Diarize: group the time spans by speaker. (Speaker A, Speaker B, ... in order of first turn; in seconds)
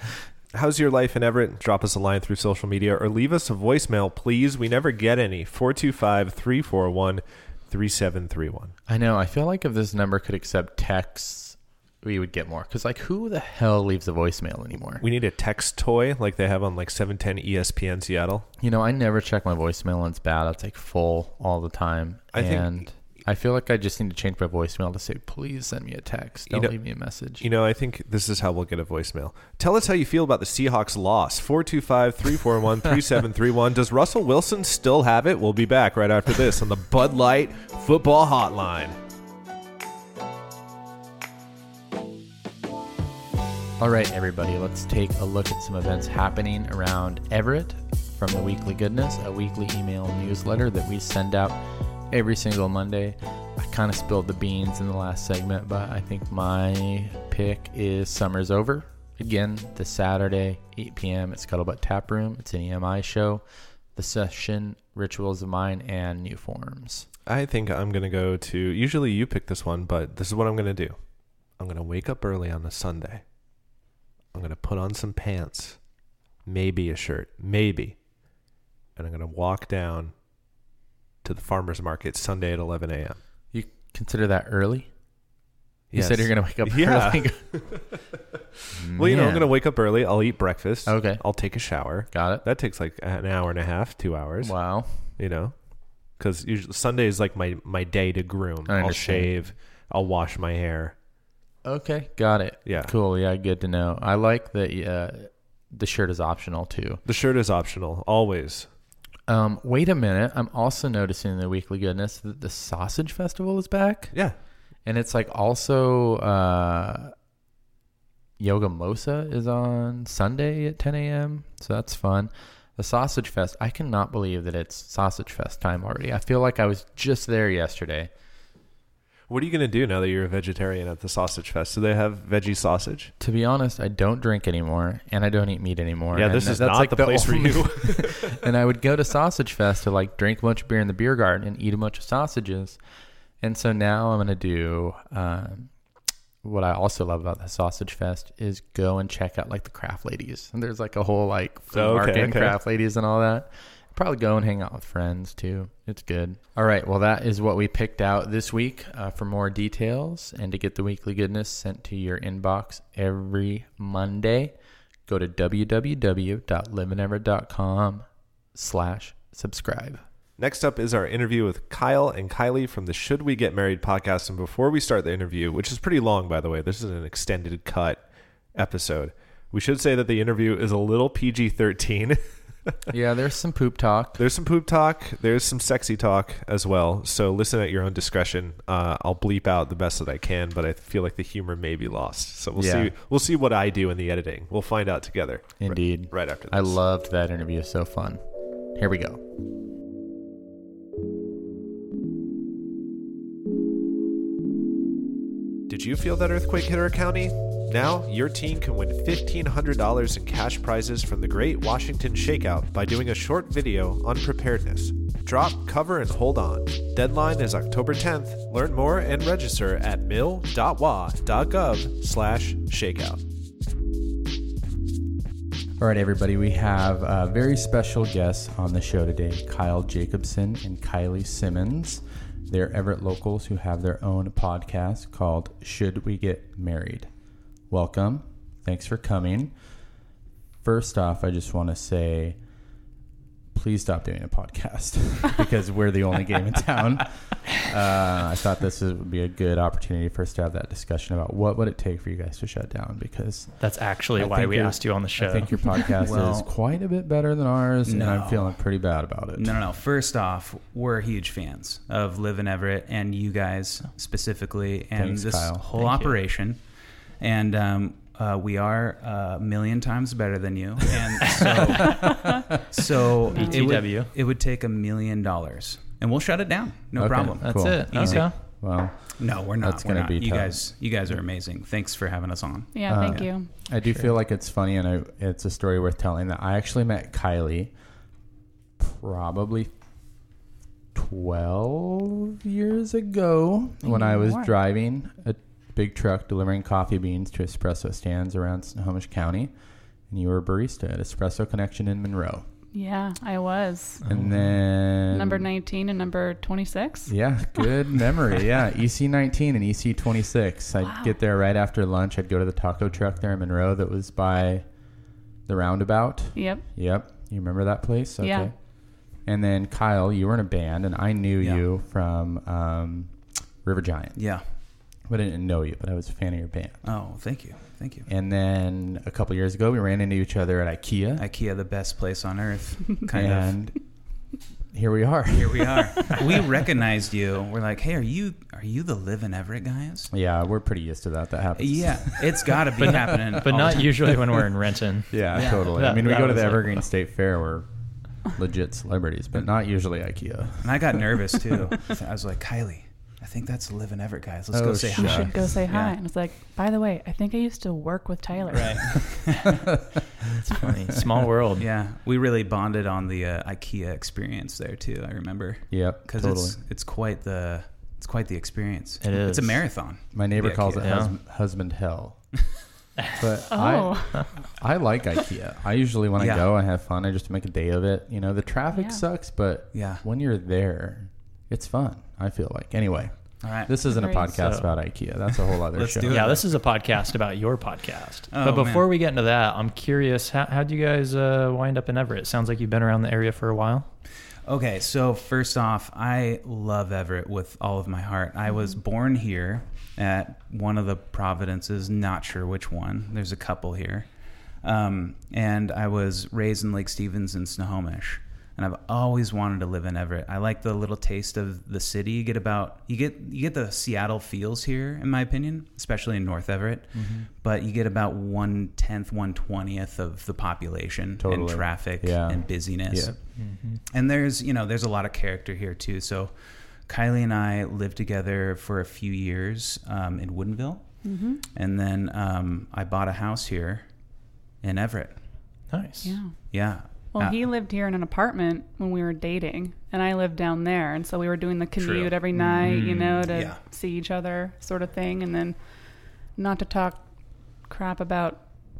Speaker A: 0.5-8.7, 15.0-18.4, 22.3-22.7, 26.5-26.7, 27.4-39.0, 67.3-71.0, 71.6-73.2, 74.3-75.8, 76.5-78.0, 79.0-80.1, 81.2-83.2, 85.9-94.5, 95.2-95.5, 96.2-100.9, 102.6-102.9, 107.0-108.7, 129.3-133.1, 136.1-138.5, 151.7-152.6, 170.4-178.0, 178.5-182.8, 184.2-196.8, 205.7-223.2
Speaker B: 8.9-15.0, 18.6-27.4, 43.8-63.4, 64.0-67.1, 83.5-84.9, 85.9-87.5, 88.7-89.5, 90.8-91.2, 92.1-92.4, 94.4-95.0, 98.7-99.3, 101.6-107.0, 109.3-114.1, 114.8-117.1, 118.4-128.1, 133.2-142.8, 143.4-145.7, 146.4-164.5, 165.1-170.0, 182.9-184.2, 192.6-192.9, 195.6-198.2, 198.7-199.2, 225.8-237.1, 237.7-239.5, 240.6-242.4, 243.5-253.6, 254.1-259.5, 264.9-265.6, 271.8-272.6, 277.0-280.6, 282.9-287.7, 288.8-289.7, 290.9-299.5, 300.1-302.4, 304.0-305.5, 307.1-314.6, 315.5-318.5, 319.2-324.2, 325.1-326.8, 328.1-331.2, 333.1-333.8, 334.7-336.2, 340.1-343.4, 345.1-347.7, 348.3-351.1, 354.5-355.5, 359.5-359.8, 365.7-366.6, 370.1-372.2, 373.2-386.2, 416.9-417.3, 421.2-423.1
Speaker C: 253.6-255.9, 265.8-266.1, 271.3-271.8, 273.3-274.1, 277.4-278.3, 343.4-346.8, 360.4-361.7, 369.0-369.6, 370.8-371.1, 384.3-384.7, 386.1-393.9, 423.4-423.8, 435.7-436.2, 442.6-442.9
Speaker D: 256.0-256.5, 257.8-258.6, 259.4-266.6, 267.2-278.3, 279.2-283.2, 324.1-324.4, 326.8-328.1, 331.2-333.6, 335.3-340.1, 341.6-344.1, 345.3-345.8, 350.6-355.9, 358.5-359.6, 361.6-371.0, 376.2-376.5, 379.7-380.0, 383.4-383.7, 385.7-386.5, 388.3-388.9, 394.4-404.1, 404.6-426.3, 426.9-433.9, 434.6-435.2, 436.5-437.4, 441.8-443.6
Speaker E: 271.8-272.6, 273.3-273.7, 282.7-283.5, 293.8-294.5, 302.7-304.1, 305.1-307.6, 310.8-311.1, 316.3-316.6, 318.2-318.5, 354.9-359.2, 373.5-374.4, 378.7-379.0, 383.9-384.3, 431.0-431.4, 436.0-436.5, 437.1-445.6, 446.3-447.1, 447.6-448.4